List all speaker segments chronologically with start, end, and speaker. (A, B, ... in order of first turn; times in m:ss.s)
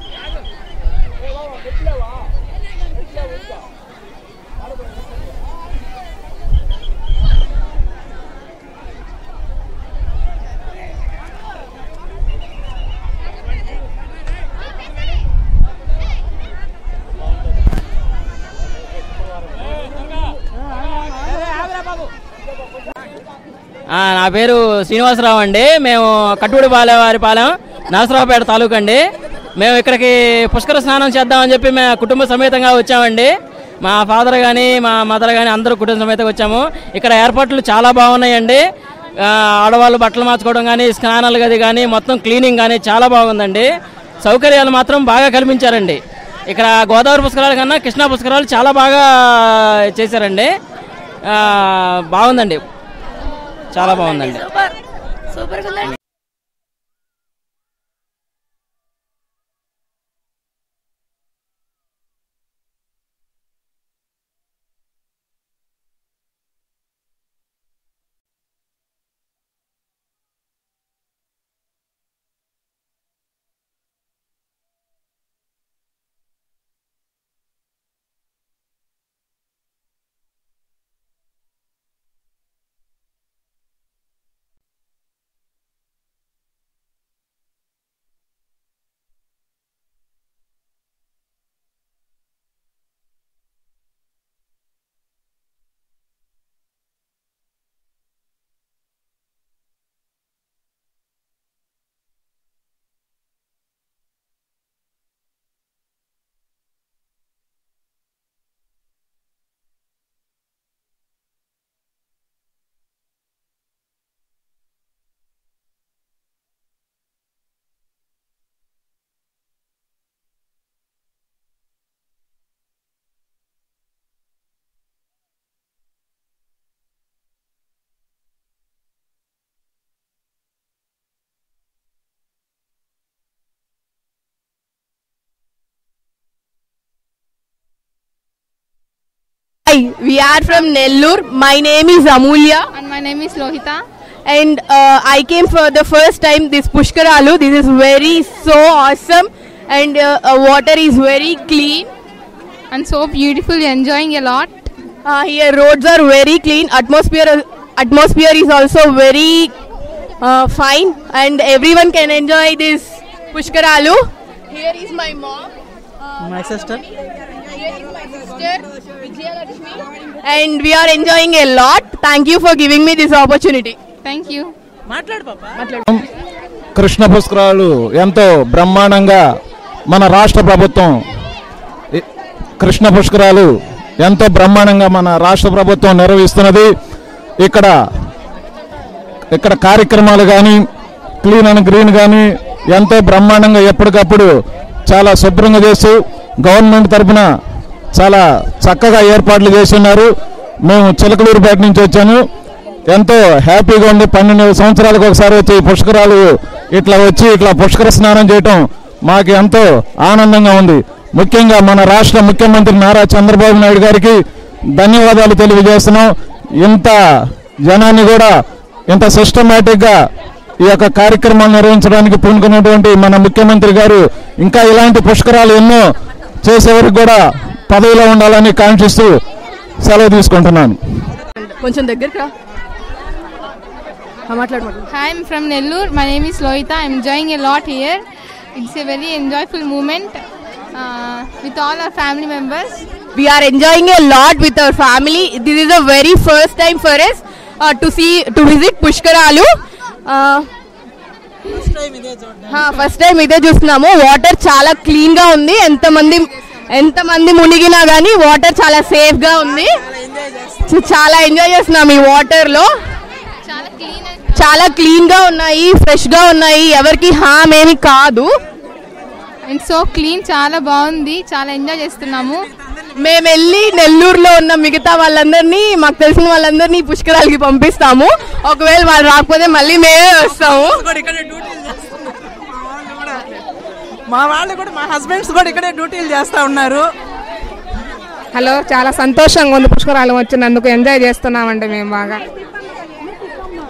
0:23.9-0:29.0 A
0:29.6-0:38.6 A
0:39.2-0:43.7 A
0:44.2-0:50.5 A
0:51.3-0:52.6 A
0:53.7-0:54.6 A
2:19.7-2:22.7 B
2:22.7-2:23.8 C
2:24.3-2:31.9 B
2:32.7-2:34.7 C
2:35.0-2:39.5 B
2:40.2-2:45.5 B
2:46.2-2:46.8 D
2:47.5-2:53.8 B
2:54.0-2:54.5 C
2:54.9-2:55.6 D
2:56.8-2:59.2 E
2:59.9-3:01.0 E
3:02.6-3:06.7 E
3:07.4-3:07.7 E
3:09.3-3:10.6 E
3:11.2-3:14.3 E
3:14.9-3:17.3 E
3:17.9-3:20.1 E
3:20.6-3:22.2 E
3:22.9-3:34.2 E
3:34.8-3:36.1 E
3:36.6-3:37.0 E
3:37.7-3:38.3 E
3:38.9-3:40.0 E
3:40.6-3:45.8 E
3:46.4-3:49.1 E
3:49.8-3:50.8 E
3:51.4-3:52.3 B
3:54.3-3:54.8 B
3:54.9-3:58.0 C
3:58.6-4:00.2 C
4:00.7-4:02.8 C
4:03.2-4:09.5 B
4:10.1-4:10.5 B
4:11.6-4:12.4 D
4:12.5-4:19.8 B
4:20.0-4:20.6 D
4:20.6-4:22.7 B
4:23.4-4:24.4 C
4:24.4-4:28.3 B
4:29.5-4:32.5 C
4:33.0-4:40.8 B
4:40.8-4:43.2 D
4:44.1-4:46.9 D
4:48.3-4:52.2 F